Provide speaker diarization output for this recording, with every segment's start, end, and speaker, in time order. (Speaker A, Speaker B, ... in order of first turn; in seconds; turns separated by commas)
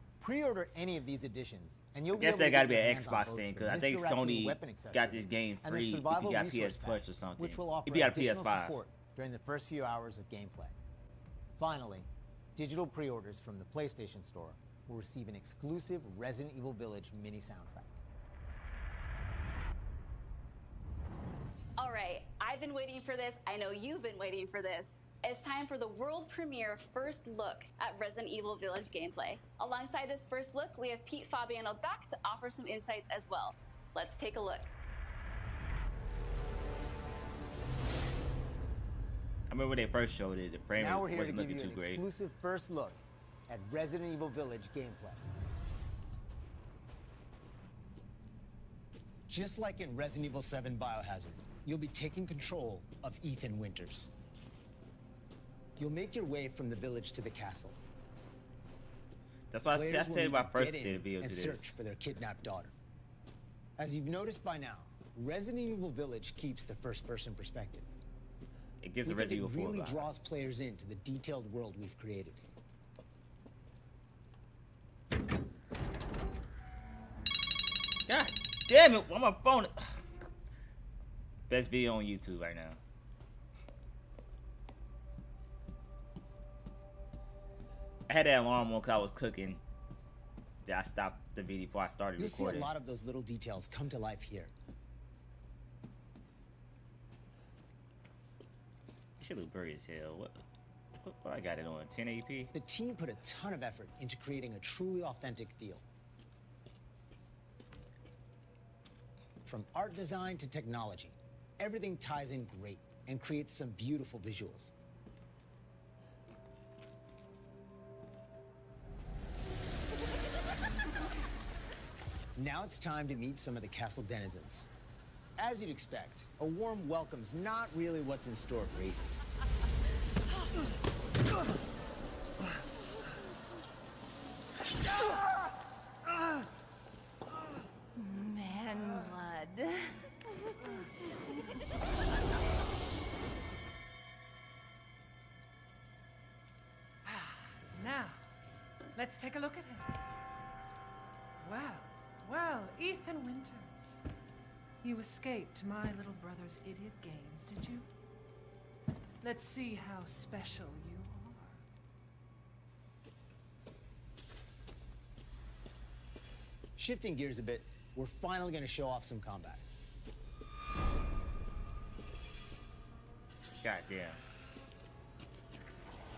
Speaker A: 0.2-10.8, Speaker B: 2.1-8.8, Speaker A: 11.6-18.0, Speaker C: 21.8-34.7, Speaker B: 39.5-42.0, Speaker A: 40.8-45.2, Speaker A: 49.3-54.1, Speaker A: 55.8-57.8, Speaker B: 59.5-61.8, Speaker A: 59.7-62.8, Speaker A: 63.8-67.9, Speaker B: 68.8-70.1, Speaker A: 69.0-72.4, Speaker B: 78.1-80.1, Speaker B: 81.5-82.8, Speaker B: 88.1-89.6, Speaker B: 90.6-92.7, Speaker A: 92.2-94.5, Speaker B: 99.2-100.4, Speaker B: 101.0-102.5, Speaker A: 102.5-105.8, Speaker A: 109.5-114.7, Speaker A: 122.4-124.7, Speaker A: 125.4-129.1, Speaker D: 138.0-139.9, Speaker E: 147.1-148.2, Speaker E: 149.0-149.9, Speaker E: 151.4-154.1, Speaker E: 154.8-157.9, Speaker E: 159.2-161.6, Speaker A: 166.8-169.7, Speaker B: 173.6-174.2